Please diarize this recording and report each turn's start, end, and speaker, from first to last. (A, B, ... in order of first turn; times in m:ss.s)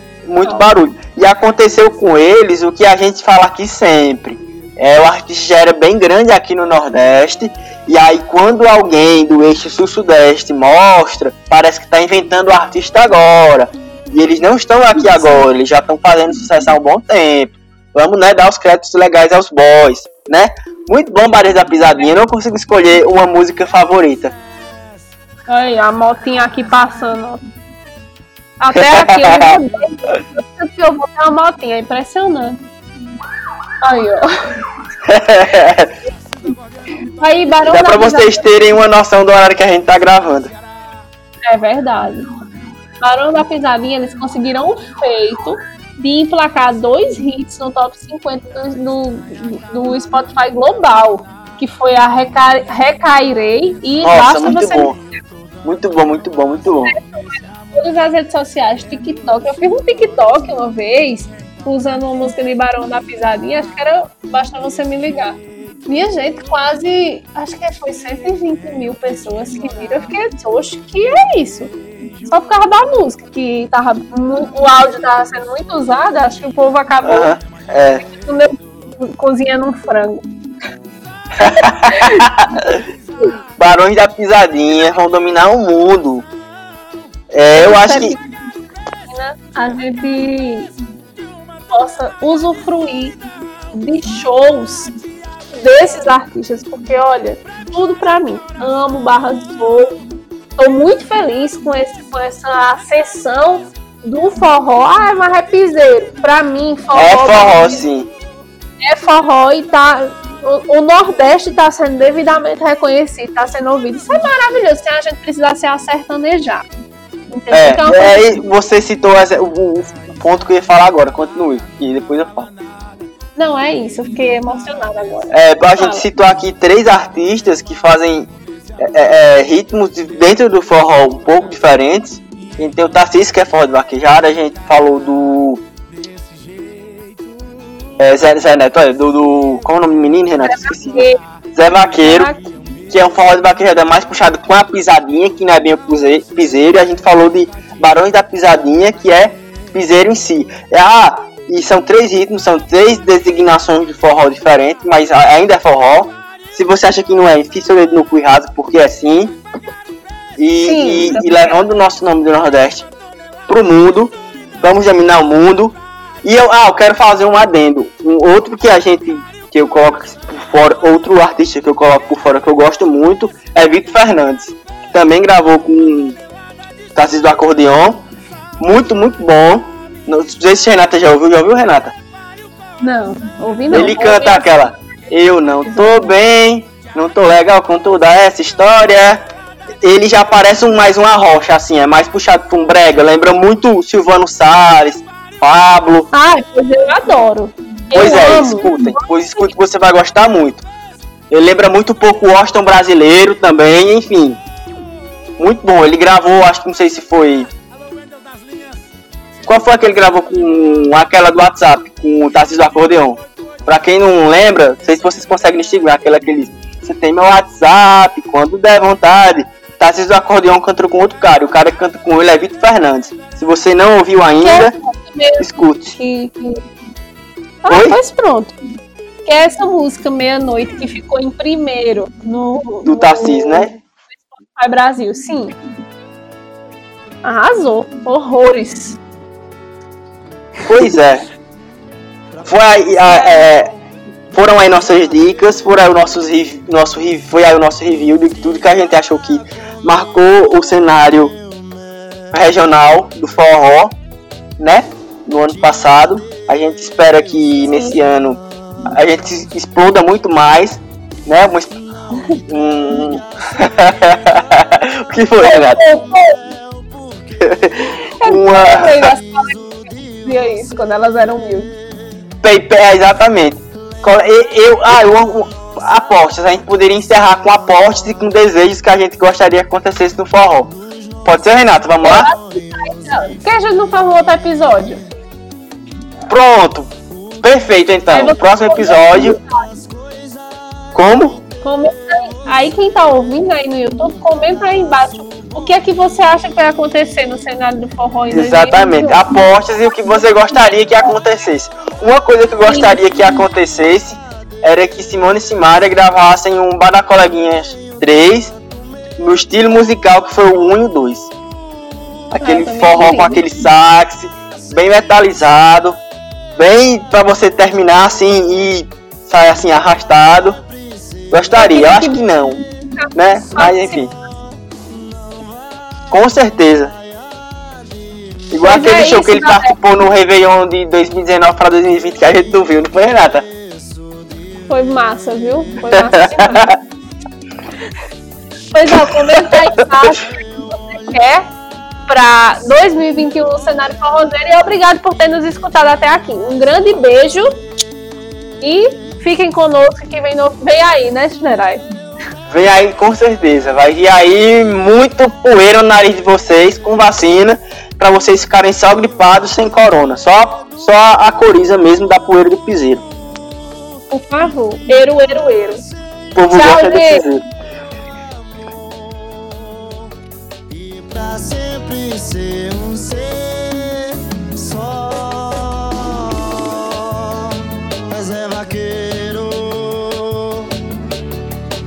0:00.2-0:24.3 A
0:00.4-0:00.7 B
0:15.0-0:15.4 B
0:25.5-0:27.4 B
0:28.6-0:32.6 B
0:28.8-0:29.6 A
0:33.8-0:34.3 B
0:35.0-0:35.9 A
0:37.2-0:38.4 B
0:37.6-0:40.5 A
0:41.5-0:42.3 B
0:43.0-0:55.0 B
0:54.0-0:55.0 A
0:55.6-0:56.9 A
0:56.9-1:11.7 B
1:12.3-1:17.3 B
1:17.0-1:18.0 A
1:18.0-1:20.2 B
1:21.4-1:22.8 A
1:21.4-1:22.3 B
1:23.6-1:26.3 A
1:27.3-1:28.2 A
1:27.6-1:28.2 B
1:29.1-1:30.7 B
1:31.7-1:33.2 B
1:33.7-1:34.9 B
1:35.6-1:40.0 B
1:40.6-1:47.8 B
1:46.9-1:48.1 A
1:48.8-1:56.6 B
1:57.3-1:58.4 B
1:57.5-2:02.5 A
2:03.4-2:06.0 B
2:05.3-2:15.6 A
2:18.0-2:22.3 A
2:20.4-2:21.2 B
2:22.0-2:22.5 B
2:22.9-2:39.4 A
2:40.4-2:42.9 A
2:40.6-2:41.5 B
2:43.5-2:56.2 A
2:56.9-2:58.0 A
2:58.6-3:01.9 A
3:02.8-3:04.7 B
3:03.7-3:09.2 A
3:05.6-3:06.2 B
3:09.8-3:16.1 A
3:16.1-3:19.5 B
3:17.9-3:20.6 A
3:21.3-3:24.4 A
3:25.4-3:27.5 A
3:29.4-3:44.7 A
3:44.4-3:46.6 B
3:45.4-3:46.0 A
3:47.6-3:48.5 B
3:47.7-3:48.0 A
3:49.2-3:55.5 B
3:52.8-3:53.7 A
3:57.2-3:59.0 B
4:00.6-4:01.2 A
4:02.4-4:03.7 A
4:03.1-4:03.5 B
4:04.3-4:11.4 A
4:12.3-4:13.9 A
4:14.6-4:21.8 A
4:22.5-4:25.8 A
4:25.4-4:26.4 B
4:27.4-4:29.1 A
4:28.2-4:31.7 B
4:32.4-4:42.3 A
4:42.0-4:45.0 B
4:46.3-4:46.9 A
4:47.4-4:49.4 A
4:48.1-4:49.6 B
4:50.9-4:51.4 A
4:51.6-4:59.4 B
4:58.3-5:08.5 A
5:02.6-5:03.0 B
5:09.2-5:11.3 A
5:12.3-5:16.0 A
5:12.4-5:13.4 B
5:16.6-5:20.6 A
5:21.3-5:22.6 A
5:21.6-5:22.2 B
5:23.0-5:24.0 B
5:23.1-5:24.1 A
5:26.1-5:26.9 A
5:28.5-5:33.4 A
5:28.6-5:29.7 B
5:34.7-5:36.7 B
5:35.9-5:36.8 A
5:38.7-5:41.5 B
5:38.9-5:40.1 A
5:42.1-5:47.6 B
5:48.6-5:51.8 B
5:52.5-6:03.0 A
6:04.1-6:05.9 B
6:06.3-6:07.4 A
6:06.5-6:07.2 B
6:09.0-6:10.0 C
6:10.7-6:17.6 C
6:18.1-6:20.7 C